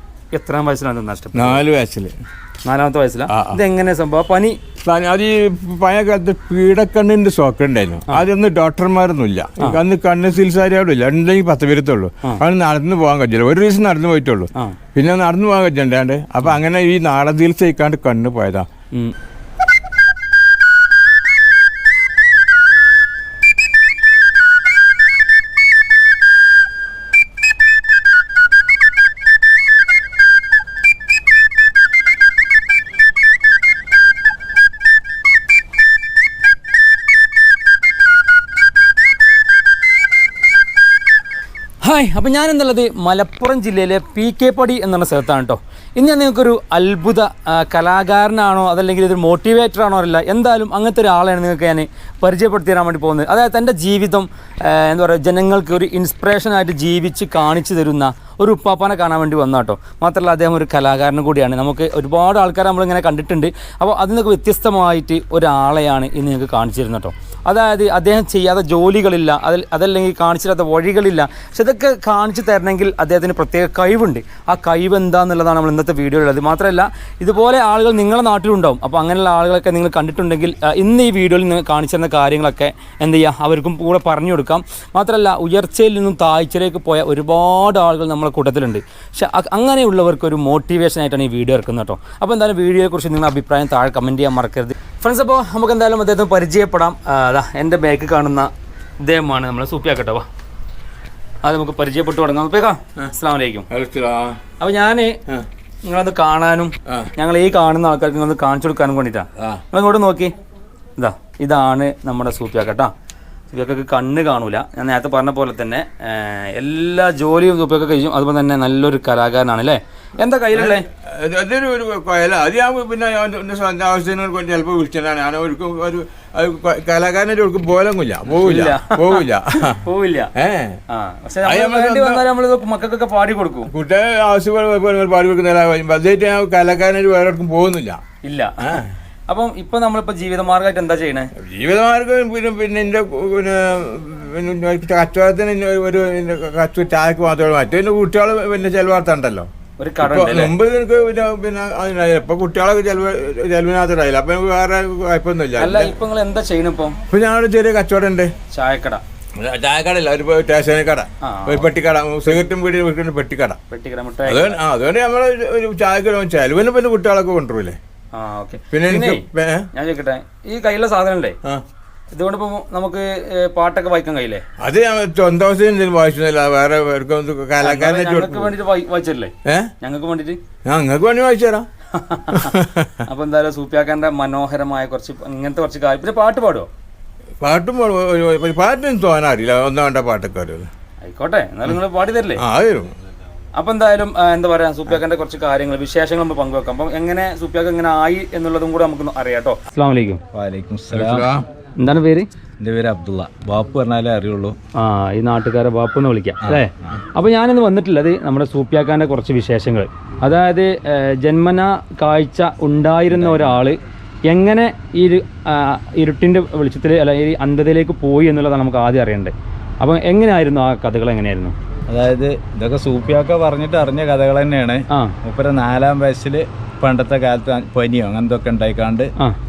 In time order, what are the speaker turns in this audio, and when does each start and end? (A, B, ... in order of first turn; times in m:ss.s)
0:00.3-0:01.6 A
0:01.3-0:02.1 B
0:02.6-0:04.6 A
0:03.3-0:03.6 B
0:04.8-0:18.7 B
0:41.8-1:40.2 A
1:41.4-1:43.7 A
1:43.7-1:44.4 B
1:44.6-1:45.2 A
1:45.8-1:50.3 A
1:46.9-1:47.1 B
1:51.0-1:52.9 A
1:53.5-2:00.8 A
2:00.5-2:09.8 B
2:08.3-2:10.3 A
2:10.4-2:10.8 B
2:10.9-2:13.7 A
2:11.4-2:12.2 B
2:13.7-2:18.0 B
2:18.2-2:21.3 A
2:18.6-2:18.8 B
2:21.4-2:29.5 B
2:29.8-2:30.5 A
2:30.0-2:35.9 B
2:35.6-2:37.0 A
2:37.1-2:38.3 B
2:38.5-2:39.0 A
2:39.4-2:43.6 B
2:41.2-2:41.7 A
2:43.7-2:44.6 A
2:44.2-2:47.8 B
2:48.1-2:51.4 A
2:48.7-2:49.7 B
2:52.1-2:54.4 A
2:54.6-2:58.6 B
2:57.6-3:00.4 A
2:59.4-2:59.7 B
3:00.6-3:01.6 B
3:01.9-3:02.5 A
3:02.3-3:03.0 B
3:03.0-3:06.7 A
3:07.4-3:10.7 B
3:11.0-3:12.4 A
3:12.4-3:12.9 B
3:13.5-3:20.2 A
3:20.3-3:21.3 C
3:20.9-3:21.4 B
3:21.8-3:22.3 A
3:22.6-3:24.6 C
3:24.8-3:41.5 A
3:26.4-3:27.0 C
3:33.1-3:33.6 C
3:41.9-3:49.1 C